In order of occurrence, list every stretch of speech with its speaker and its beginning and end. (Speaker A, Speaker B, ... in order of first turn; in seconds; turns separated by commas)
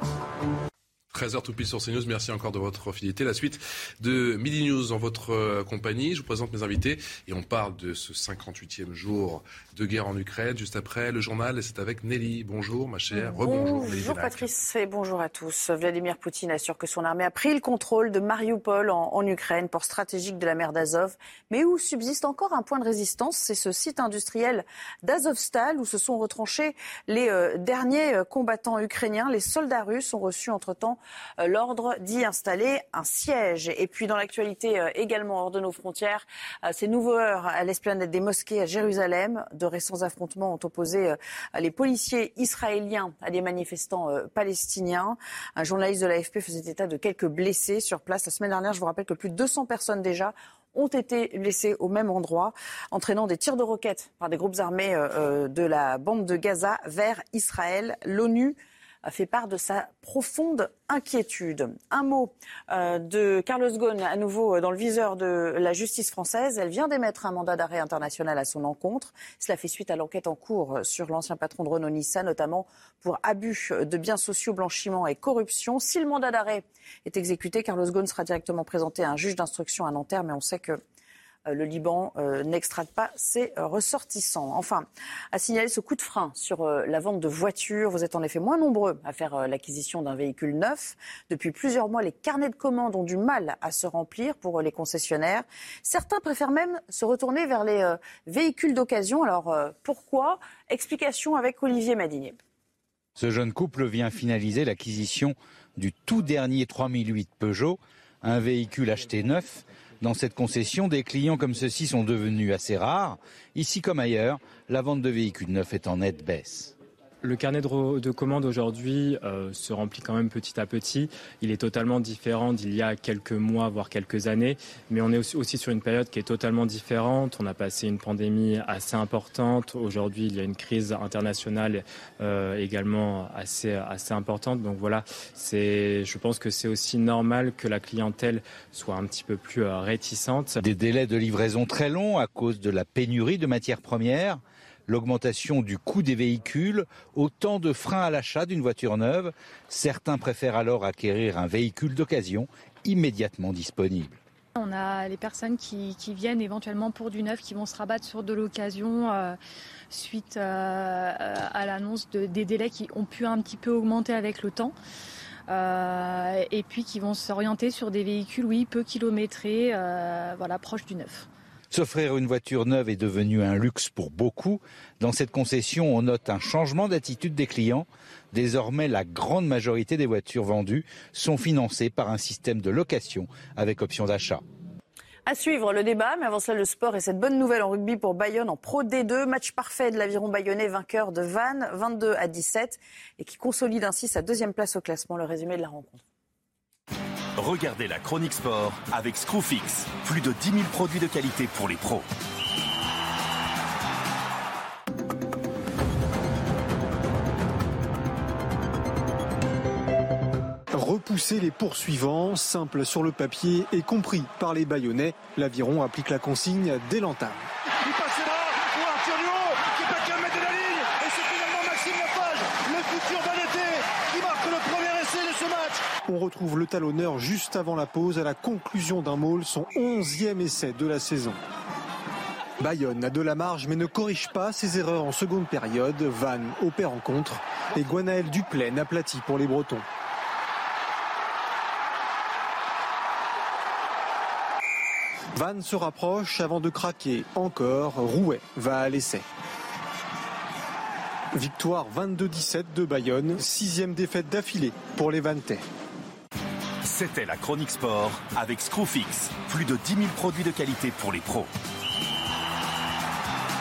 Speaker A: 1.1-14.5, Speaker B: 13.1-80.8, Speaker B: 81.5-102.4, Speaker C: 103.2-116.7, Speaker D: 117.2-140.6, Speaker C: 140.6-154.2, Speaker E: 154.6-159.4, Speaker E: 159.9-164.7, Speaker E: 165.5-171.3, Speaker C: 171.7-184.4, Speaker B: 185.2-196.0, Speaker F: 197.4-202.1, Speaker G: 210.7-231.4, Speaker G: 232.6-239.8, Speaker G: 245.3-249.2, Speaker G: 251.3-255.7, Speaker F: 256.8-261.5